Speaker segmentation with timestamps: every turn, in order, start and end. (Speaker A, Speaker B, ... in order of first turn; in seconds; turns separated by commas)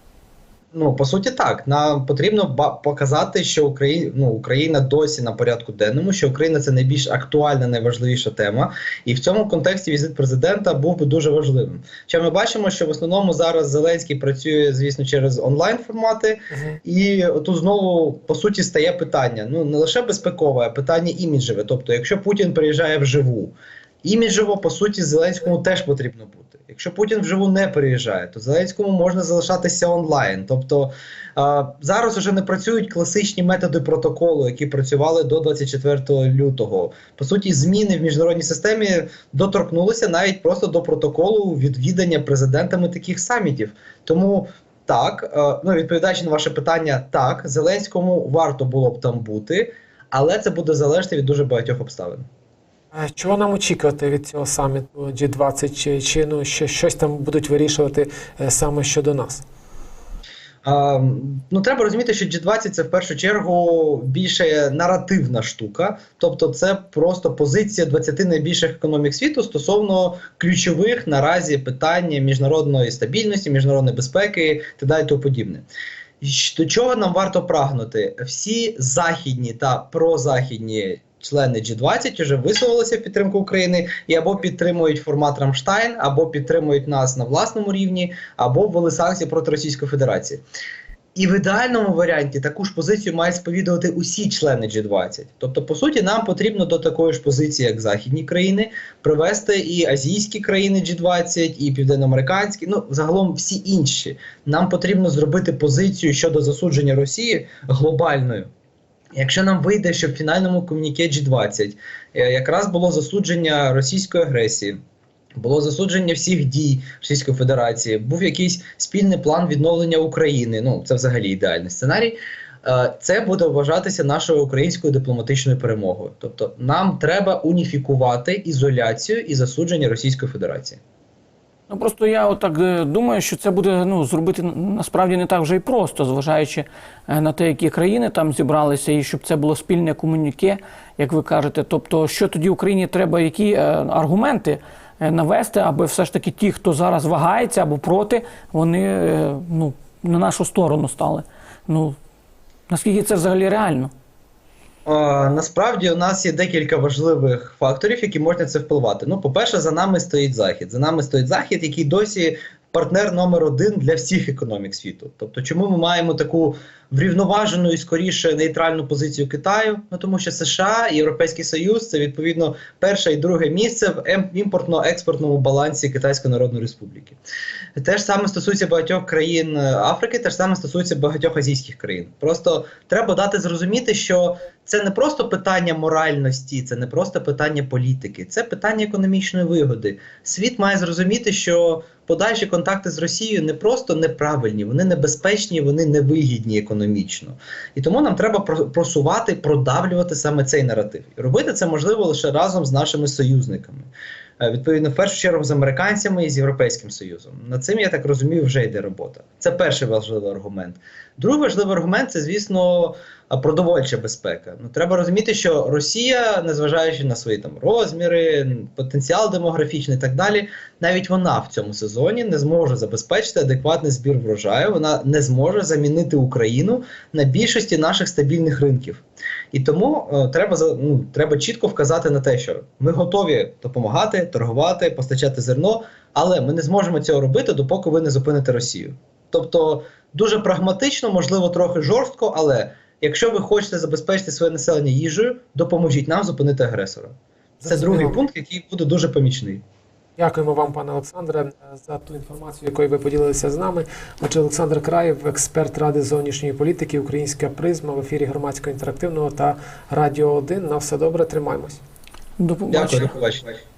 Speaker A: 0.7-52.3, Speaker B: 16.5-16.8, Speaker B: 52.9-59.4, Speaker A: 60.6-75.6, Speaker A: 76.2-90.4, Speaker A: 91.1-108.5, Speaker A: 109.1-114.8, Speaker A: 115.4-130.8, Speaker C: 131.7-151.9, Speaker C: 152.7-153.9, Speaker A: 154.8-177.2, Speaker A: 177.8-247.1, Speaker B: 247.6-248.2, Speaker A: 247.7-249.6, Speaker B: 250.2-261.8, Speaker C: 262.4-263.1, Speaker A: 262.7-263.6